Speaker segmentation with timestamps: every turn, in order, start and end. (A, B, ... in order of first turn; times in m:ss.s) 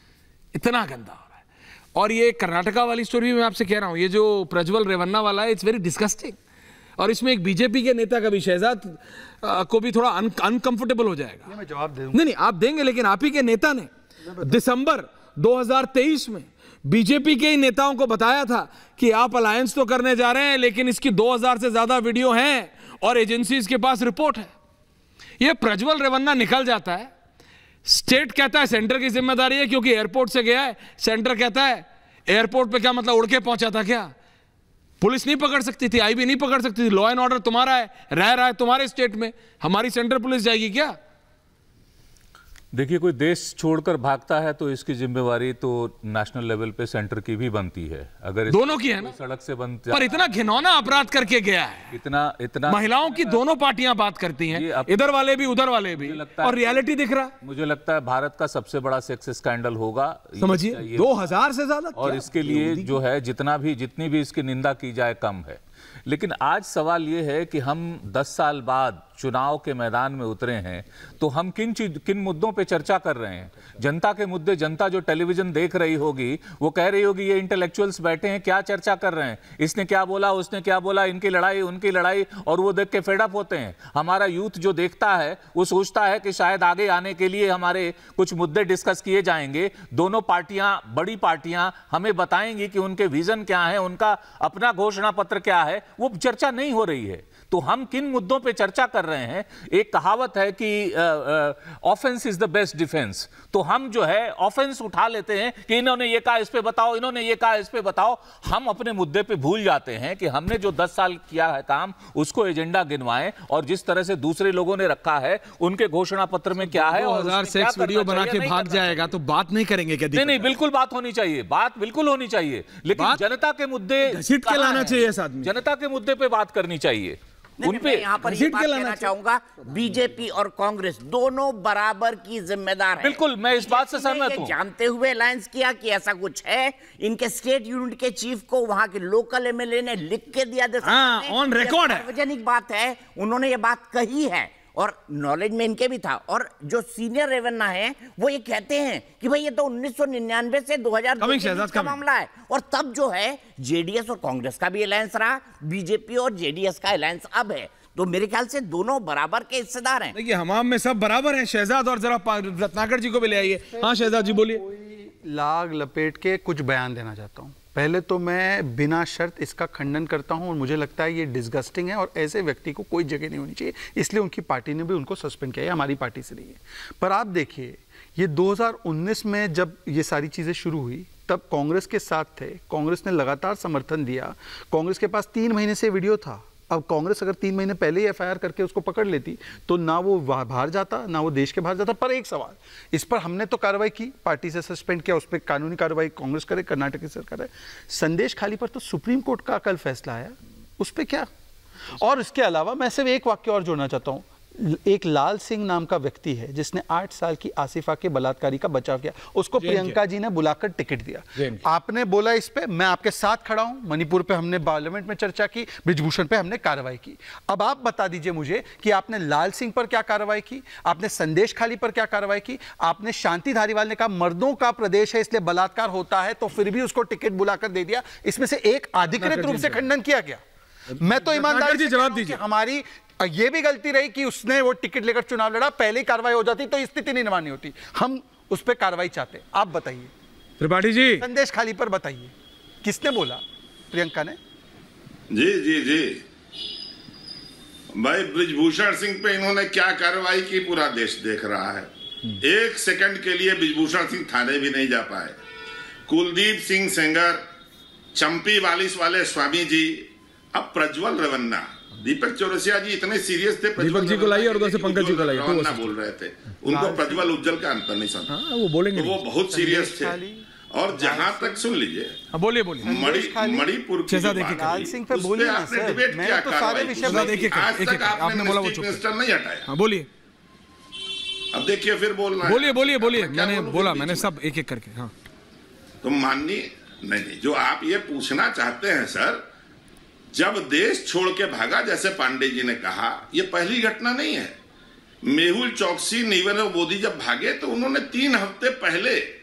0:00.5-0:01.4 A
0:01.9-0:06.4 A
0:07.0-0:11.5 A
0:11.5-0:12.2 B
0:12.1-0:24.5 A
0:14.2-0:14.5 B
0:25.4-0:27.1 A
0:27.9-0:34.1 A
0:35.0-0:41.0 A
0:42.7-0:51.1 C
0:48.5-0:49.2 A
0:49.9-0:52.0 A
0:51.9-0:53.4 C
0:52.7-0:57.3 A
0:54.5-0:56.8 C
0:57.4-1:01.3 C
1:00.4-1:03.0 A
1:02.0-1:59.1 C
1:56.6-2:00.6 A
2:00.1-2:08.1 C
2:03.0-2:03.2 A
2:04.0-2:05.5 A
2:07.6-2:40.1 D
2:08.2-2:09.1 A
2:13.0-2:14.6 C
2:20.8-2:22.1 A
2:31.2-2:32.0 A
2:40.1-2:44.6 A
2:43.2-3:21.3 B
3:22.0-3:50.4 B
3:29.6-3:30.0 A
3:31.4-3:31.6 A
3:49.1-3:49.8 A
3:51.0-4:00.1 B
3:51.0-3:52.4 A
4:00.6-4:01.3 A
4:01.2-4:04.4 B
4:05.3-4:06.2 E
4:07.9-4:15.4 E
4:16.1-4:17.4 E
4:18.2-4:28.3 E
4:23.8-4:25.9 A
4:26.6-4:27.3 B
4:28.3-4:29.2 A
4:28.9-4:30.2 E
4:29.5-4:31.7 B
4:30.7-4:32.2 E
4:32.3-4:32.9 A
4:32.8-4:33.7 B
4:32.9-4:39.7 E
4:34.1-4:34.8 A
4:34.5-4:37.4 B
4:37.0-4:39.0 A
4:39.7-4:40.1 A
4:41.5-4:44.3 E
4:42.4-4:45.1 A
4:46.0-4:49.4 E
4:50.3-4:54.6 E
4:55.2-4:59.3 E